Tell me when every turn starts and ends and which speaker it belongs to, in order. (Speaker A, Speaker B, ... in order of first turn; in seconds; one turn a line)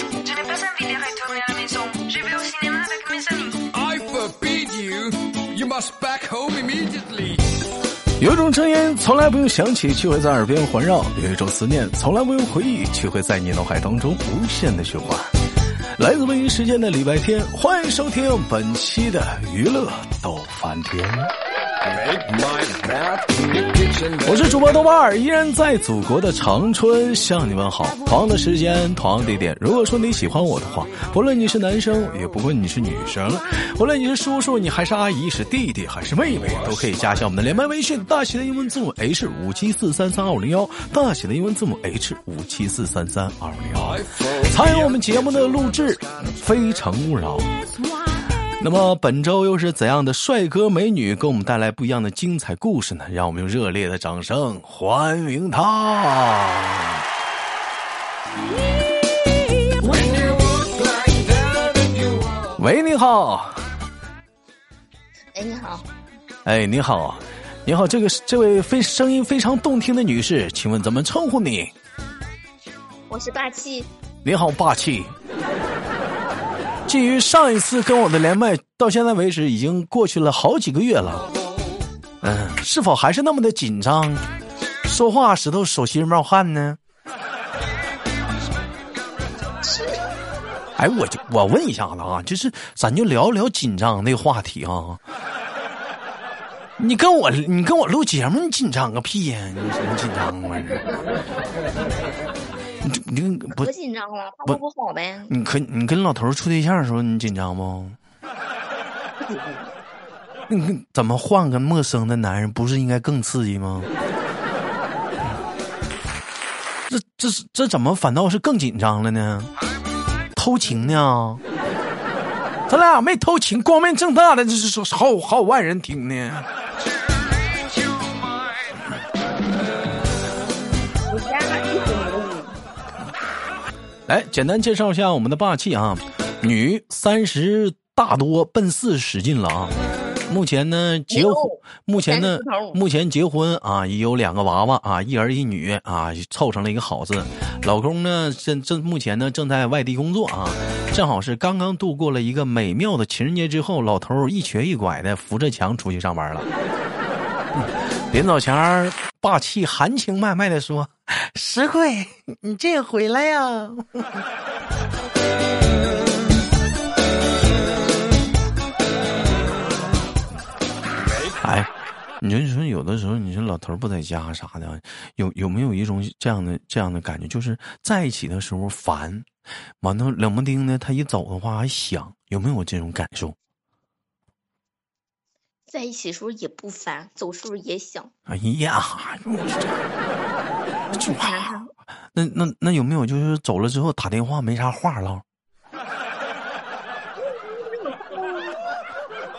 Speaker A: 0.2-3.5
Speaker B: 3.6-7.5
Speaker C: 8.2-15.3
Speaker C: 16.0-21.3
Speaker B: 21.8-24.6
Speaker C: 24.2-47.5
Speaker B: 36.4-37.3
Speaker B: 43.8-46.8
Speaker C: 48.6-57.0
Speaker B: 59.8-62.6
Speaker C: 62.6-63.6
Speaker D: 65.3-65.9
Speaker C: 66.5-71.7
Speaker D: 73.1-73.9
Speaker C: 74.2-75.1
Speaker C: 76.9-81.3
Speaker C: 82.2-84.2
Speaker C: 84.9-86.8
Speaker D: 89.6-90.0
Speaker C: 90.8-95.0
Speaker C: 96.8-100.9
Speaker C: 102.8-103.7
Speaker D: 103.5-105.3
Speaker C: 105.3-108.0
Speaker D: 109.2-109.7
Speaker C: 110.5-113.9
Speaker C: 116.9-119.5
Speaker C: 120.4-121.4
Speaker C: 122.7-126.5
Speaker D: 131.1-132.6
Speaker C: 134.1-139.8
Speaker C: 140.3-156.5
Speaker D: 141.1-142.8
Speaker C: 157.5-164.2
Speaker B: 171.0-171.4
Speaker C: 171.4-179.3
Speaker C: 179.8-183.4
Speaker D: 185.7-188.1
Speaker C: 188.3-189.8
Speaker D: 190.9-191.7
Speaker C: 190.9-191.6
Speaker C: 192.1-195.2
Speaker D: 197.2-198.6